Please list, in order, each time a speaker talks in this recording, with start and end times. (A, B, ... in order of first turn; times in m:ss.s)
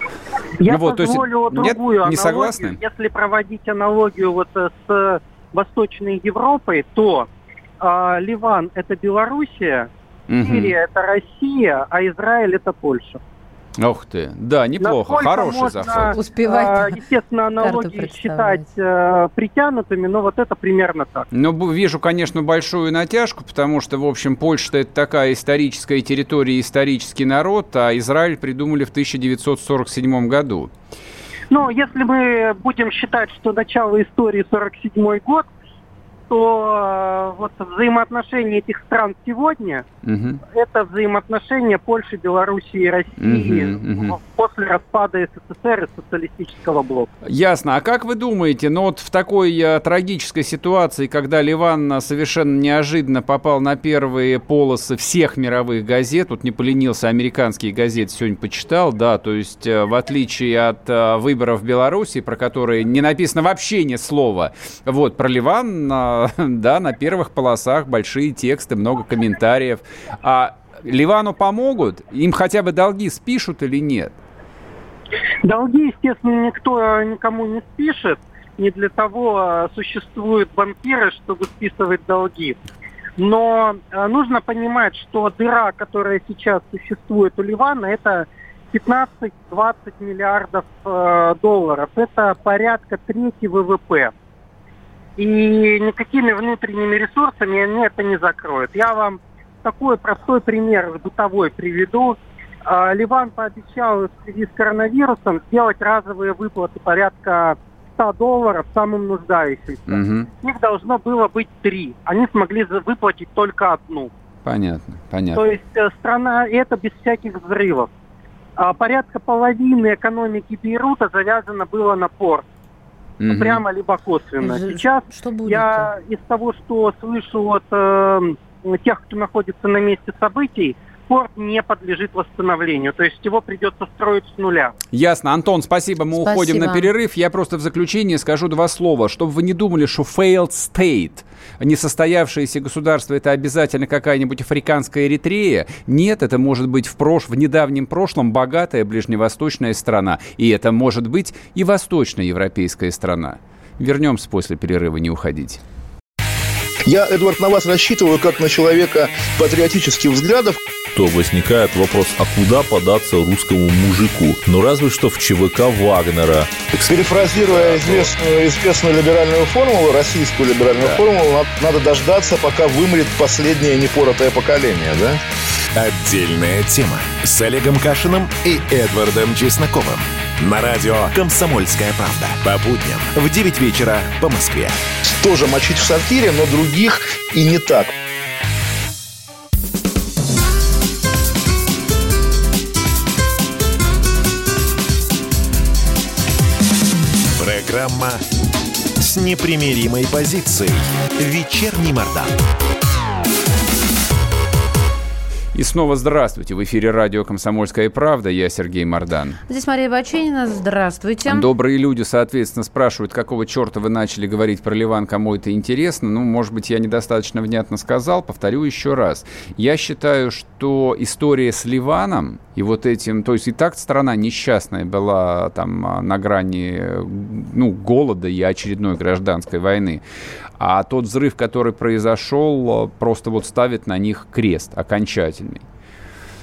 0:00.6-0:07.3 A
0:00.7-0:02.8 B
0:07.8-0:13.2 A
0:10.3-0:10.7 B
0:13.8-0:16.1 B
0:14.8-0:21.3 A
0:16.1-0:17.0 C
0:17.6-0:18.6 C
0:21.3-0:30.7 B
0:31.5-0:35.5 A
0:36.3-0:39.8 A
0:40.0-0:40.4 B
0:40.5-0:47.1 A
0:43.2-0:44.2 B
0:47.2-1:14.1 B
1:15.4-1:22.6 A
1:23.2-1:34.1 A
1:35.2-1:54.1 A
1:49.9-1:50.3 B
1:54.4-1:55.4 B
1:55.3-1:57.9 A
1:58.6-2:02.4 A
2:03.2-2:03.6 B
2:03.3-2:14.7 A
2:04.4-2:05.9 C
2:14.9-2:35.6 B
2:16.1-2:16.9 C
2:36.8-2:40.6 D
2:40.9-2:48.1 E
2:46.8-2:55.2 D
2:55.7-3:04.8 F
3:05.1-3:07.9 D
3:17.4-3:18.2 F
3:19.0-3:22.3 F
3:25.5-3:29.4 B
3:29.5-3:31.4 C
3:31.2-3:50.0 B
3:50.6-3:55.6 B